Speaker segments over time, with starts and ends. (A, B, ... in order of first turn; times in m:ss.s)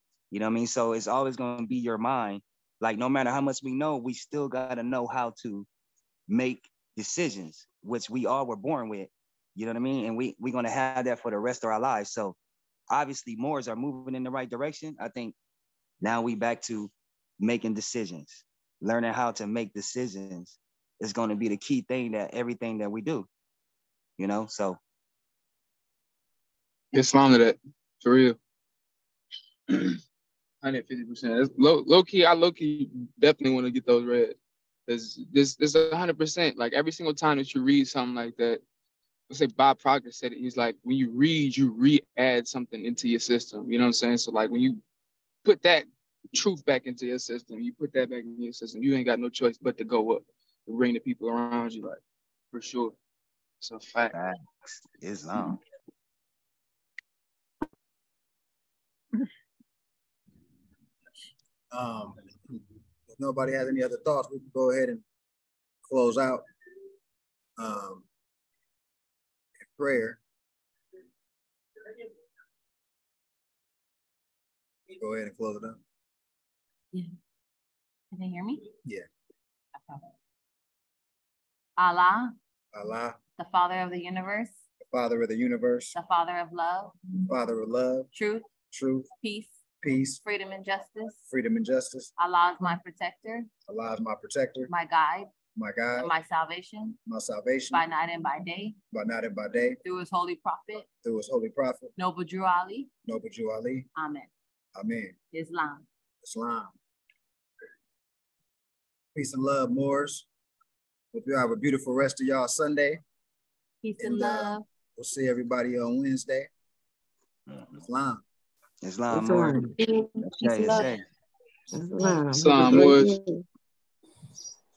0:00.3-0:05.7 A
0:06.3-0:12.4 A
0:12.9-0:15.3 A
0:16.0-0:23.3 A
0:24.2-0:24.8 A
0:26.9-0:28.4 B
0:29.7-0:30.0 B
0:30.6-0:38.6 B
0:39.3-0:44.8 B
0:45.4-0:52.0 B
0:52.5-0:53.0 B
0:53.6-0:54.2 B
0:54.1-0:55.6 A
1:01.7-1:02.2 C
1:03.1-1:05.0 C
1:05.8-1:06.4 C
1:07.6-1:08.0 C
1:09.6-1:10.2 C
1:15.0-1:15.8 C
1:18.1-1:18.7 D
1:21.8-1:22.3 D
1:22.7-1:23.2 C
1:23.4-1:24.6 D
1:24.9-1:25.9 C
1:25.9-1:27.0 D
1:27.2-1:28.1 C
1:28.1-1:28.4 D
1:28.7-1:29.1 C
1:29.2-1:29.6 D
1:29.8-1:30.2 C
1:30.2-1:31.2 D
1:31.3-1:32.1 C
1:32.2-1:33.5 D
1:33.7-1:34.7 C
1:34.7-1:35.3 D
1:35.5-1:36.1 C
1:36.0-1:37.0 D
1:37.0-1:37.8 C
1:37.7-1:38.8 D
1:38.9-1:39.8 C
1:39.8-1:40.9 D
1:41.0-1:41.9 C
1:42.0-1:42.9 D
1:43.0-1:43.9 C
1:43.9-1:44.3 D
1:44.8-1:45.1 C
1:45.3-1:45.8 D
1:46.2-1:46.7 C
1:49.1-1:50.3 C
1:51.1-1:53.0 C
1:53.8-1:54.6 D
1:54.0-1:56.5 C
1:57.5-1:57.8 A
1:57.8-1:58.2 C
1:58.8-2:01.0 A
1:59.1-2:00.9 E
2:01.7-2:03.4 E
2:02.3-2:03.2 B